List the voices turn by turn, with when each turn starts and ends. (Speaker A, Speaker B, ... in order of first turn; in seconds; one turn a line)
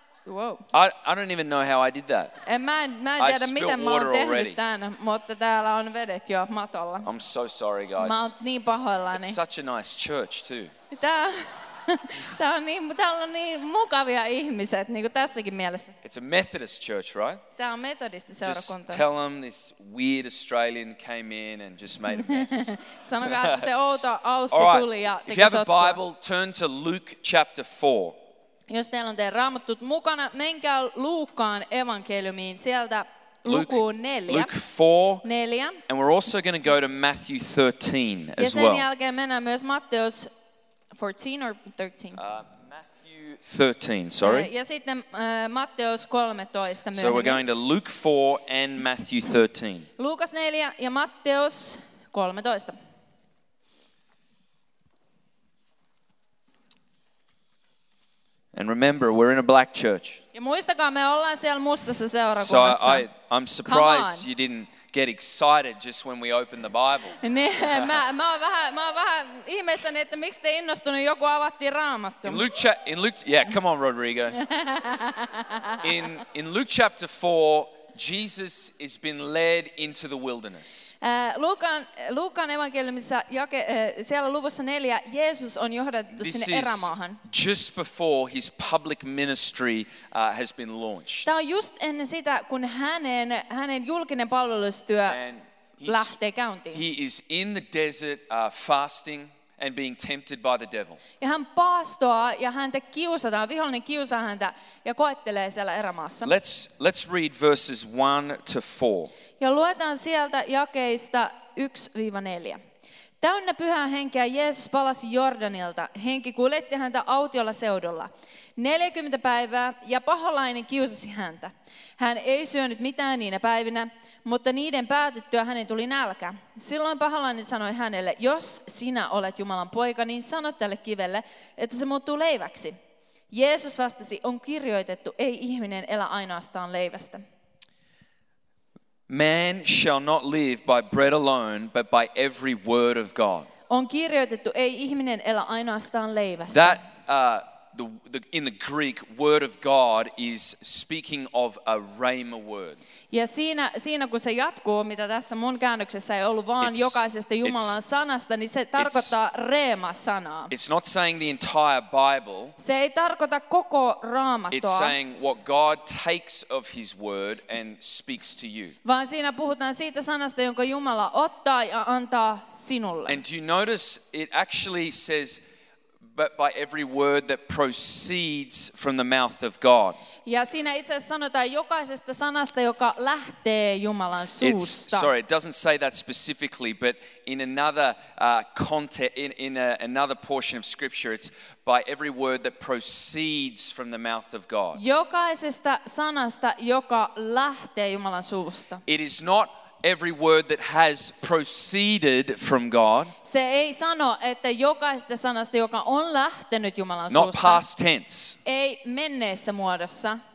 Speaker A: 0.2-0.7
Speaker B: 0.7-2.3
Speaker A: 2.5-7.1
Speaker B: 3.2-4.6
Speaker B: 7.0-8.3
Speaker A: 8.0-9.4
Speaker B: 9.1-10.7
Speaker A: 10.9-15.9
Speaker B: 16.0-17.4
Speaker A: 17.6-19.0
Speaker B: 18.4-23.7
Speaker A: 22.1-26.0
Speaker B: 24.5-28.2
Speaker A: 28.7-34.5
Speaker B: 33.5-35.2
Speaker A: 35.2-35.8
Speaker B: 35.9-38.9
Speaker A: 38.4-40.3
Speaker A: 40.9-42.2
Speaker B: 42.2-44.5
Speaker A: 44.2-47.4
Speaker B: 46.9-49.9
Speaker A: 50.0-52.8
Speaker B: 58.5-60.2
Speaker A: 60.3-63.1
Speaker B: 62.4-68.0
Speaker A: 63.7-64.3
Speaker A: 67.2-72.5
Speaker B: 72.2-74.4
Speaker A: 74.3-75.8
Speaker B: 75.8-80.9
Speaker A: 81.0-87.2
Speaker B: 86.1-91.3
Speaker A: 91.2-95.2
Speaker B: 95.1-96.2
Speaker A: 95.9-96.8
Speaker B: 96.7-101.0
Speaker A: 101.2-106.3
Speaker B: 106.2-109.1
Speaker A: 109.4-112.6
Speaker A: 113.2-132.8
Speaker A: 133.3-137.2
Speaker B: 139.1-143.5
Speaker A: 143.7-146.8
Speaker B: 146.5-152.8
Speaker A: 153.1-160.5
Speaker B: 156.6-157.8
Speaker B: 158.8-159.1
Speaker B: 160.5-162.6
Speaker A: 162.6-164.9
Speaker B: 164.5-168.8
Speaker A: 168.8-173.2
Speaker B: 173.1-175.4
Speaker B: 176.1-180.0
Speaker A: 180.2-185.1
Speaker B: 184.4-194.8
Speaker A: 194.8-198.8
Speaker B: 198.9-203.1
Speaker A: 203.2-207.6
Speaker B: 207.1-208.4
Speaker A: 208.4-210.2